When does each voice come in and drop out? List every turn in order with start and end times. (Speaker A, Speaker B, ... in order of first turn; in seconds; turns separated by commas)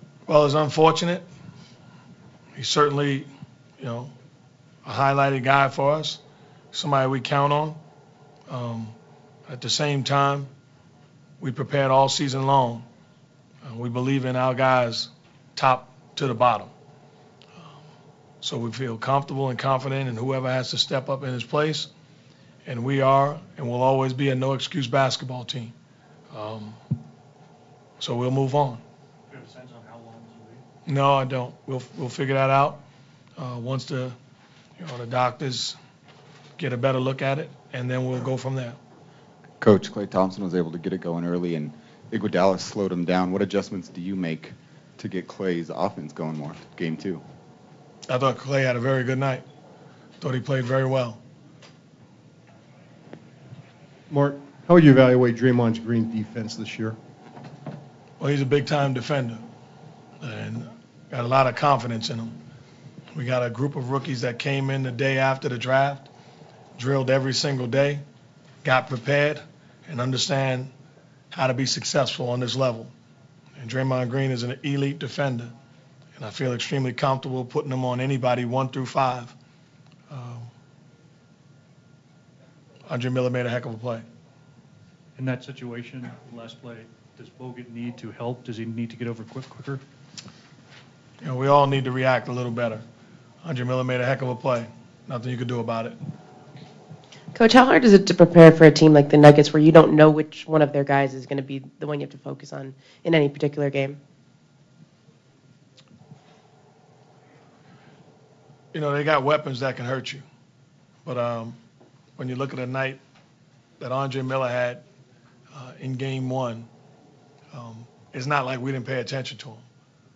Speaker A: 0.3-1.2, Speaker A: 2.6-4.1, Speaker A: 4.8-6.2, Speaker A: 6.7-7.8, Speaker A: 8.5-8.9, Speaker A: 9.5-10.5, Speaker A: 11.4-12.9, Speaker A: 13.6-16.7, Speaker A: 18.4-21.9, Speaker A: 22.6-25.7, Speaker A: 26.3-26.8, Speaker A: 28.0-28.8, Speaker B: 29.3-30.6, Speaker A: 30.9-32.8, Speaker A: 33.4-34.1, Speaker A: 34.8-35.8, Speaker A: 36.6-38.8, Speaker C: 39.6-47.2, Speaker A: 48.1-49.5, Speaker A: 50.2-51.2, Speaker D: 54.1-57.0, Speaker A: 58.2-59.4, Speaker A: 60.2-62.4, Speaker A: 63.1-66.1, Speaker A: 66.8-68.0, Speaker A: 68.6-70.7, Speaker A: 71.3-72.9, Speaker A: 73.6-75.5, Speaker A: 76.2-79.3, Speaker A: 80.1-80.5, Speaker A: 82.9-84.0, Speaker B: 85.2-89.8, Speaker A: 91.2-92.8, Speaker A: 93.4-96.0, Speaker E: 97.3-104.0, Speaker A: 108.7-110.2, Speaker A: 111.0-111.6, Speaker A: 112.2-113.0, Speaker A: 113.8-114.8, Speaker A: 115.5-116.7, Speaker A: 117.5-119.6